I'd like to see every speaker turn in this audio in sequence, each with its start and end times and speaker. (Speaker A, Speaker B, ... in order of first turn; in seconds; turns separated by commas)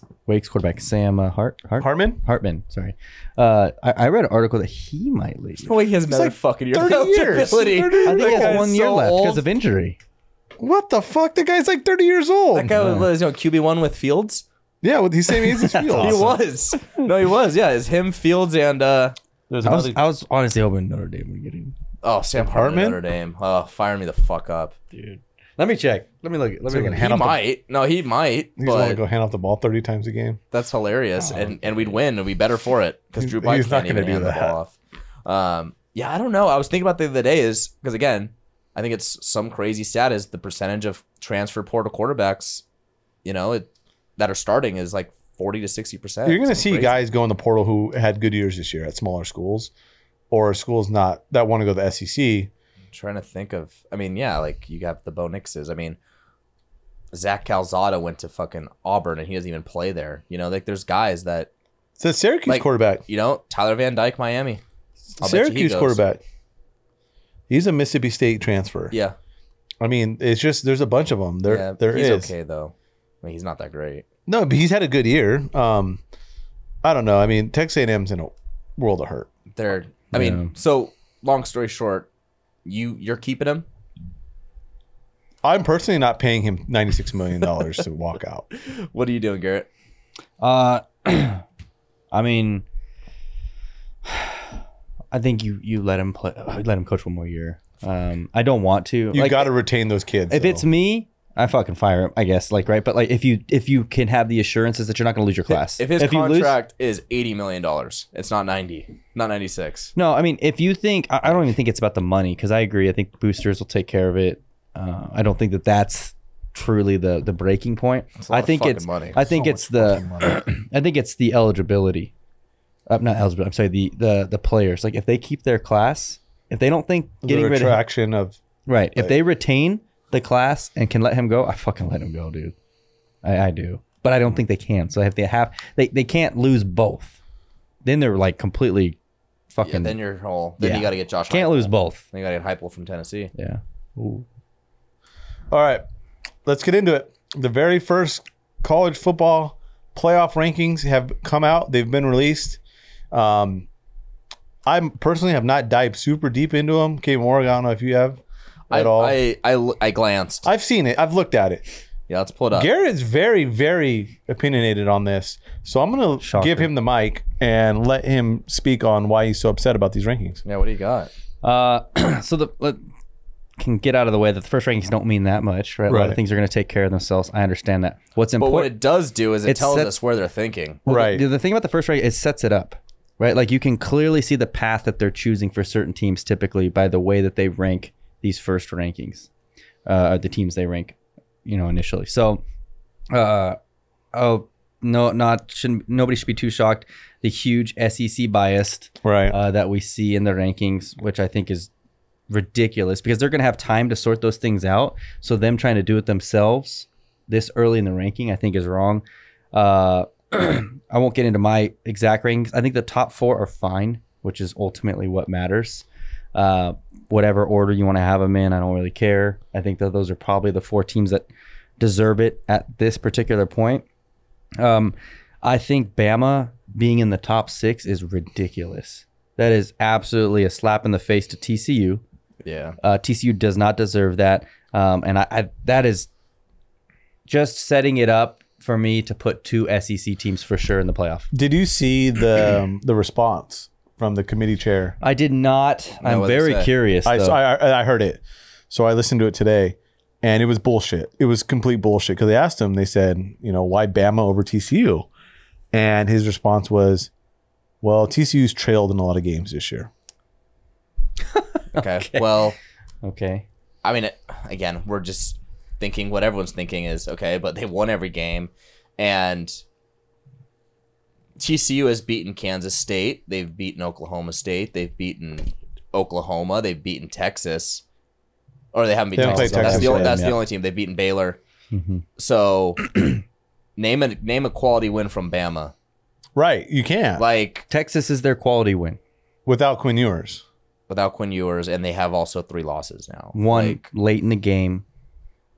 Speaker A: 0.3-5.7, Speaker B: 1.8-2.2, Speaker C: 5.6-9.4, Speaker B: 6.1-8.7, Speaker A: 8.0-10.0, Speaker B: 10.6-12.8, Speaker C: 12.5-14.4, Speaker A: 12.8-13.1, Speaker B: 14.8-16.2, Speaker A: 15.4-16.4, Speaker C: 15.9-19.1, Speaker B: 19.5-20.0, Speaker A: 19.6-21.7, Speaker C: 22.0-24.7, Speaker B: 22.4-23.0, Speaker A: 24.9-27.2, Speaker B: 26.7-27.4, Speaker C: 27.0-29.0, Speaker B: 28.6-30.4, Speaker C: 30.5-42.6, Speaker B: 33.2-34.5, Speaker C: 43.2-47.0, Speaker B: 46.2-49.7, Speaker B: 50.3-52.5, Speaker C: 52.9-56.0, Speaker C: 57.1-61.5, Speaker B: 62.0-63.0, Speaker C: 62.5-64.6, Speaker B: 65.2-66.2, Speaker C: 65.2-66.0, Speaker B: 67.5-68.9, Speaker C: 68.9-69.2, Speaker B: 69.8-72.3, Speaker C: 71.5-74.0, Speaker B: 74.3-76.0, Speaker B: 76.8-79.3, Speaker C: 79.5-82.1, Speaker A: 80.1-80.5, Speaker C: 82.6-83.7, Speaker B: 85.4-88.5, Speaker C: 88.5-89.7, Speaker A: 90.4-91.4, Speaker A: 92.1-92.6, Speaker A: 94.0-94.4, Speaker A: 95.1-99.5, Speaker B: 99.1-100.6, Speaker A: 100.3-106.6, Speaker C: 105.5-109.9, Speaker A: 110.0-122.1, Speaker C: 118.2-119.2, Speaker B: 119.2-120.4, Speaker A: 122.9-127.8, Speaker B: 127.2-128.4, Speaker A: 128.7-132.5, Speaker A: 133.2-137.1, Speaker A: 137.8-139.0, Speaker A: 139.5-139.9, Speaker C: 139.6-143.3, Speaker A: 140.6-142.0, Speaker B: 145.5-145.8, Speaker B: 146.4-152.6, Speaker B: 153.1-153.7, Speaker B: 154.7-158.2, Speaker B: 158.7-159.2, Speaker C: 158.7-160.5, Speaker B: 160.4-161.7, Speaker C: 162.1-162.7, Speaker B: 162.5-170.4, Speaker A: 166.2-166.7, Speaker C: 170.4-171.1, Speaker A: 171.4-172.8, Speaker A: 173.6-178.7, Speaker B: 175.9-176.2, Speaker C: 178.4-180.8, Speaker A: 179.4-179.9, Speaker B: 180.8-181.2, Speaker A: 180.9-189.3, Speaker A: 189.8-192.4, Speaker A: 193.1-193.6, Speaker A: 194.1-201.7, Speaker B: 199.0-199.4, Speaker A: 202.3-221.3, Speaker A: 221.8-223.8, Speaker A: 224.6-232.0, Speaker C: 232.4-232.8, Speaker A: 232.8-236.1, Speaker A: 237.3-241.3, Speaker B: 241.3-244.9, Speaker A: 245.0-247.4, Speaker C: 246.0-246.7, Speaker B: 247.0-255.1, Speaker B: 255.7-257.1, Speaker B: 257.8-259.9, Speaker A: 261.3-262.4, Speaker C: 261.7-262.6, Speaker A: 263.0-263.4, Speaker C: 263.8-269.6, Speaker C: 271.4-277.8, Speaker C: 278.7-281.4, Speaker B: 279.1-280.3, Speaker A: 279.2-280.4, Speaker A: 281.7-282.0, Speaker C: 282.2-283.2, Speaker C: 283.8-285.7, Speaker B: 286.3-287.2, Speaker C: 287.2-287.6, Speaker A: 287.7-289.0, Speaker B: 289.4-290.4, Speaker C: 290.9-293.8, Speaker A: 293.3-294.8